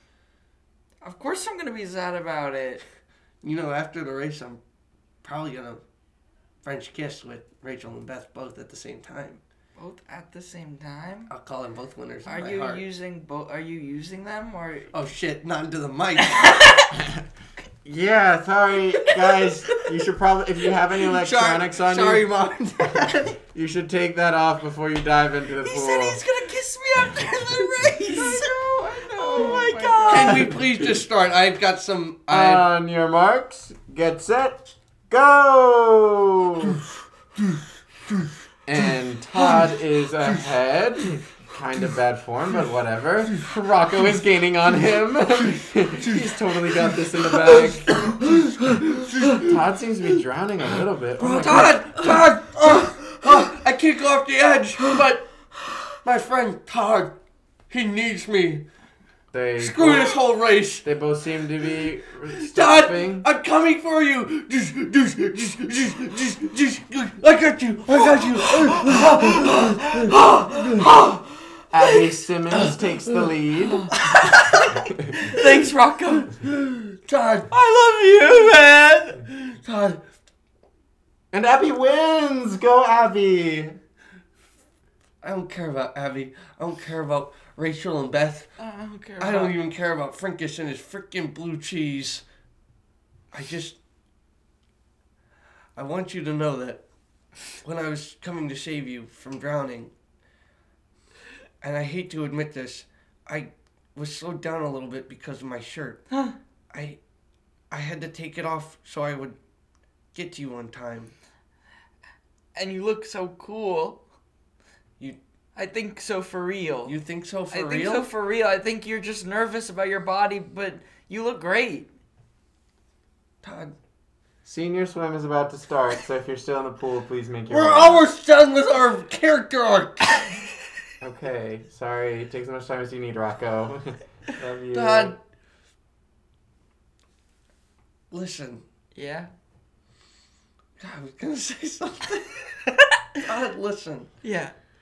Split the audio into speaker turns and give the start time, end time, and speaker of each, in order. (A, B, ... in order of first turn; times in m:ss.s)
0:01.0-0:02.8 A
0:03.4-0:04.6 B
0:05.2-0:05.8 B
0:06.6-0:09.4 B
0:09.8-0:11.3 A
0:11.3-0:12.8 B
0:12.3-0:14.9 A
0:14.9-0:16.6 B
0:16.2-0:17.0 A
0:16.9-0:17.2 C
0:17.8-0:22.3 C
0:19.0-0:19.8 A
0:21.1-0:23.4 B
0:22.9-0:26.2 C
0:25.6-0:30.5 A
0:27.8-0:31.0 C
0:30.1-0:32.7 B
0:32.3-0:36.8 C
0:38.7-0:48.2 C
0:47.3-0:49.5 B
0:49.2-0:51.9 C
0:51.2-0:57.2 B
0:57.7-0:58.6 B
0:59.3-1:00.2 C
0:59.6-1:00.9 B
1:00.8-1:03.3 C
1:02.4-1:11.1 B
1:08.2-1:11.4 A
1:11.7-1:13.9 C
1:12.5-1:14.7 B
1:13.9-1:16.3 A
1:16.3-1:17.5 B
1:17.5-1:19.2 A
1:19.3-1:20.0 B
1:21.3-1:23.8 C
1:25.2-1:28.5 B
1:28.6-1:29.6 A
1:29.2-1:32.2 B
1:33.3-1:33.8 B
1:35.8-1:36.8 B
1:37.6-1:39.9 B
1:41.6-1:46.0 B
1:46.7-1:47.0 B
1:47.7-1:49.4 B
1:50.1-1:51.1 B
1:52.6-1:54.0 A
1:55.6-1:57.0 A
1:56.9-1:58.1 B
1:57.5-2:01.9 A
2:03.4-2:03.7 B
2:04.4-2:08.1 C
2:07.5-2:10.4 B
2:11.0-2:15.2 C
2:14.7-2:15.2 B
2:18.1-2:18.6 B
2:19.0-2:19.3 A
2:20.8-2:22.6 B
2:23.2-2:24.1 B
2:24.2-2:24.5 A